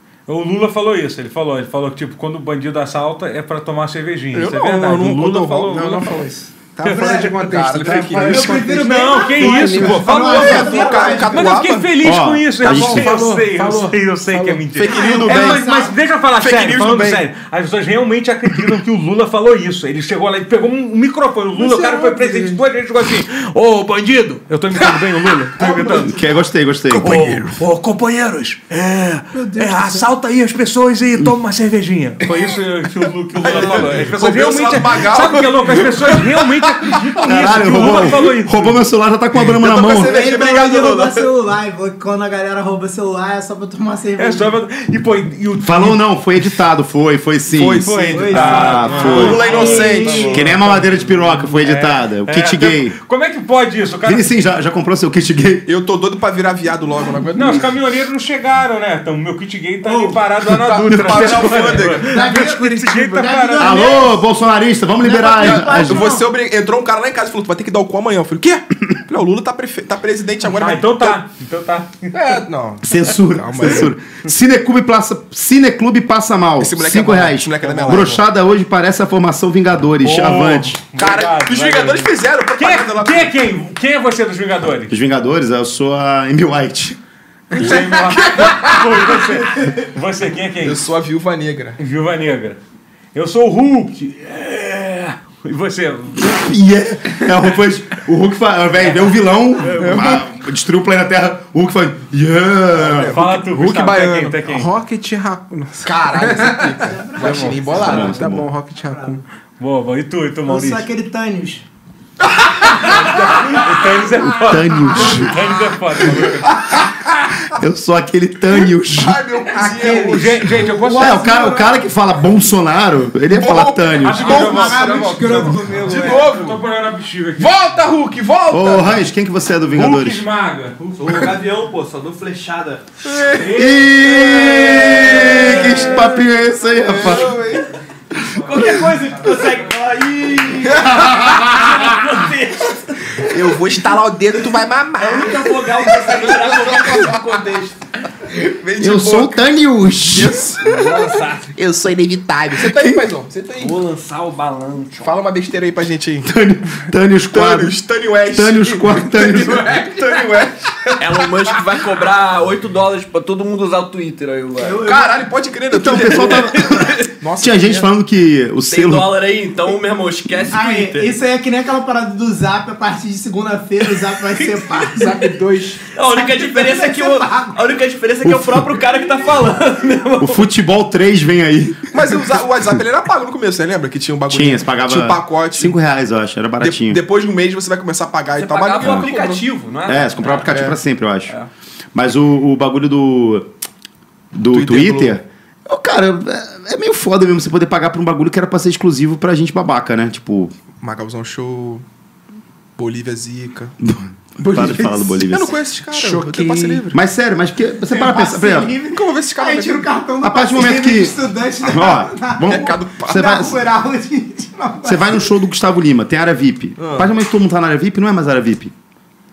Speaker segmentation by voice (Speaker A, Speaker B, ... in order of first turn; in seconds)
Speaker A: 0.3-6.2, 6.8-26.2, 27.0-38.8, 44.2-46.0, 47.8-54.3, 57.4-63.9, 70.5-72.4, 77.8-78.1, 80.0-85.0, 87.5-90.8, 91.8-92.6, 93.1-96.5, 99.6-100.2, 103.0-104.7, 107.2-107.6, 109.6-110.9, 112.7-116.8, 120.0-121.4, 124.0-127.5, 129.7-131.4, 133.4-135.6
Speaker B: 4.3-5.8, 7.2-8.8, 9.9-11.9, 14.7-15.7, 16.4-17.2, 33.4-37.2, 37.8-38.2, 39.4-41.3, 47.5-50.5, 55.7-57.7, 60.5-62.2, 65.4-71.2, 72.1-74.0, 76.6-78.2, 81.0-83.4, 87.5-88.8, 90.6-91.8, 102.7-104.4, 105.8-108.2, 112.8-113.4, 116.2-117.5, 118.5-121.0, 123.3-126.6, 127.4-129.1, 133.0-137.7, 140.6-141.4, 143.2-147.5, 148.3-149.4, 150.1-153.8, 155.0-156.3, 157.3-161.6, 164.8-167.9, 181.9-185.8, 186.6-189.5, 190.5-190.8, 194.5-195.2, 200.8-201.8, 202.8-203.8, 204.6-207.0, 208.9-209.9, 212.5-213.2, 216.8-217.1
Speaker C: 5.7-11.3, 12.6-14.7, 21.5-22.6, 29.3-30.1, 104.5-106.8, 107.7-109.2, 119.6-120.2, 174.9-175.8, 204.4-205.1, 205.9-206.9
Speaker D: 6.8-7.4, 8.1-11.5, 14.8-16.0, 40.0-44.6, 48.1-50.4, 59.8-60.2, 62.0-64.2, 65.0-66.3, 106.9-109.2, 110.5-111.6, 119.7-121.8, 124.2-126.2, 164.6-165.2, 170.5-175.3, 176.1-177.5, 207.9-215.3
Speaker E: 12.0-13.2, 25.9-27.5, 37.2-40.1, 45.6-49.4, 50.3-53.0, 54.0-55.7, 63.6-66.1, 72.8-80.8, 84.9-87.0, 96.2-103.2, 107.8-108.5, 114.4-115.4, 117.5-119.2, 120.9-124.4, 128.5-130.2, 133.5-137.4, 138.2-138.8, 140.9-142.0, 148.8-150.5, 152.6-153.1, 156.2-157.8, 158.3-159.7, 165.7-169.2, 178.2-178.8, 180.2-182.4, 184.3-187.0, 188.8-189.1, 189.9-191.3, 191.9-193.5, 194.3-200.5, 203.8-205.6, 206.9-208.8, 210.2-213.6, 214.8-218.7
Speaker F: 131.0-132.8, 134.8-135.9, 138.3-143.5, 145.0-147.8, 150.6-151.5, 153.6-155.2, 159.2-160.1, 161.0-164.9, 166.6-167.1, 168.7-171.2, 175.9-180.4, 188.4-190.5